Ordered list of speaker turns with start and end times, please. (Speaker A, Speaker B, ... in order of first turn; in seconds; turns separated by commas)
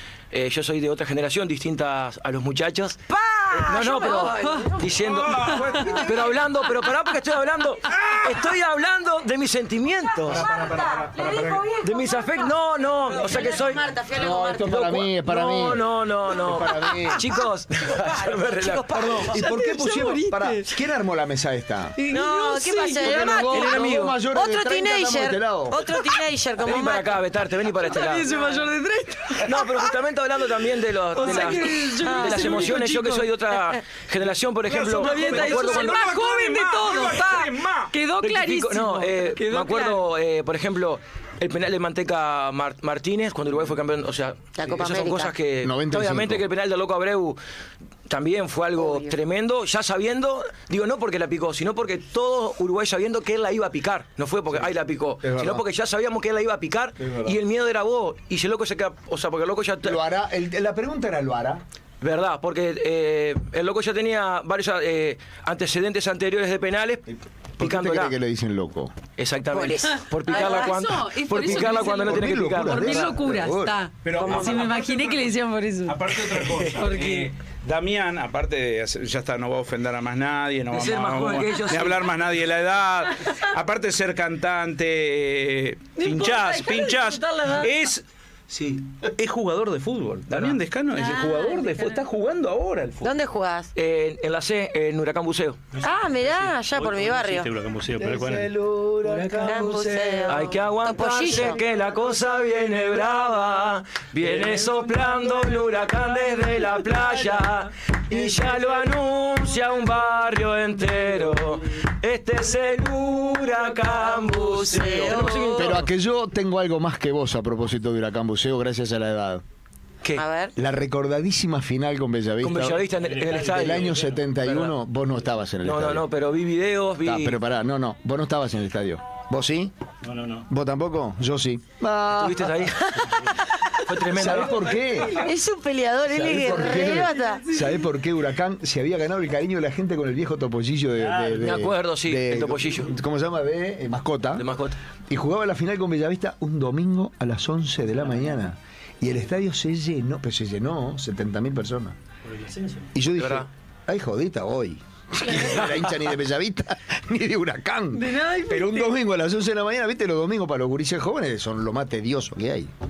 Speaker A: 0.3-3.0, Speaker B: 3.1-5.0, Speaker A: 3.6-10.5, Speaker C: 3.9-4.7, Speaker D: 5.0-6.4, Speaker C: 5.5-5.9, Speaker D: 10.3-11.7, Speaker B: 10.3-12.5, Speaker A: 11.8-13.9, Speaker B: 13.1-15.0, Speaker E: 14.1-17.2, Speaker A: 14.7-19.2, Speaker B: 17.8-19.3, Speaker E: 18.9-22.0, Speaker C: 19.3-20.7, Speaker C: 21.9-23.5, Speaker B: 22.1-27.2, Speaker E: 23.0-25.9, Speaker A: 23.5-24.2, Speaker A: 26.6-28.3, Speaker C: 27.8-29.7, Speaker B: 28.3-28.6, Speaker A: 29.4-36.0, Speaker C: 31.1-33.3, Speaker B: 31.2-31.5, Speaker B: 32.0-32.6, Speaker D: 34.6-37.9, Speaker C: 35.0-40.0, Speaker A: 38.2-47.4, Speaker B: 44.6-45.3, Speaker E: 45.6-46.5, Speaker A: 48.1-60.0, Speaker B: 48.8-49.1, Speaker E: 55.2-55.6, Speaker E: 57.0-57.4, Speaker E: 59.8-61.6, Speaker A: 62.0-67.0, Speaker E: 67.1-68.9, Speaker A: 67.6-68.1, Speaker A: 69.2-73.1, Speaker B: 69.5-70.7, Speaker C: 70.2-77.3, Speaker E: 71.4-73.8, Speaker D: 74.0-75.3, Speaker B: 74.2-74.6, Speaker D: 75.8-88.0, Speaker A: 76.4-76.7, Speaker A: 80.7-82.1, Speaker C: 86.0-87.7, Speaker D: 89.0-93.1, Speaker A: 90.3-90.6, Speaker C: 90.9-92.0, Speaker B: 93.0-93.7, Speaker A: 93.8-95.6, Speaker F: 95.7-100.1, Speaker B: 95.8-97.5, Speaker E: 98.0-98.5, Speaker A: 98.0-115.9, Speaker B: 99.4-101.6, Speaker F: 104.2-105.0, Speaker B: 114.2-115.8, Speaker E: 115.6-119.4, Speaker B: 120.2-120.5, Speaker E: 120.5-122.8, Speaker A: 122.4-124.7, Speaker F: 122.9-124.3, Speaker E: 123.4-126.0, Speaker A: 125.6-127.4, Speaker E: 127.0-129.7, Speaker F: 130.0-130.5, Speaker E: 130.5-132.5, Speaker A: 132.1-133.2, Speaker B: 132.8-133.7, Speaker A: 133.8-134.7, Speaker E: 134.1-135.2, Speaker F: 134.6-134.9, Speaker B: 135.1-137.5, Speaker E: 136.1-144.5, Speaker C: 136.8-137.8, Speaker F: 141.0-141.5, Speaker A: 141.4-142.9, Speaker A: 144.3-144.8, Speaker E: 145.1-152.0, Speaker F: 152.2-152.9, Speaker E: 152.9-162.7, Speaker A: 153.2-153.5, Speaker C: 157.9-158.9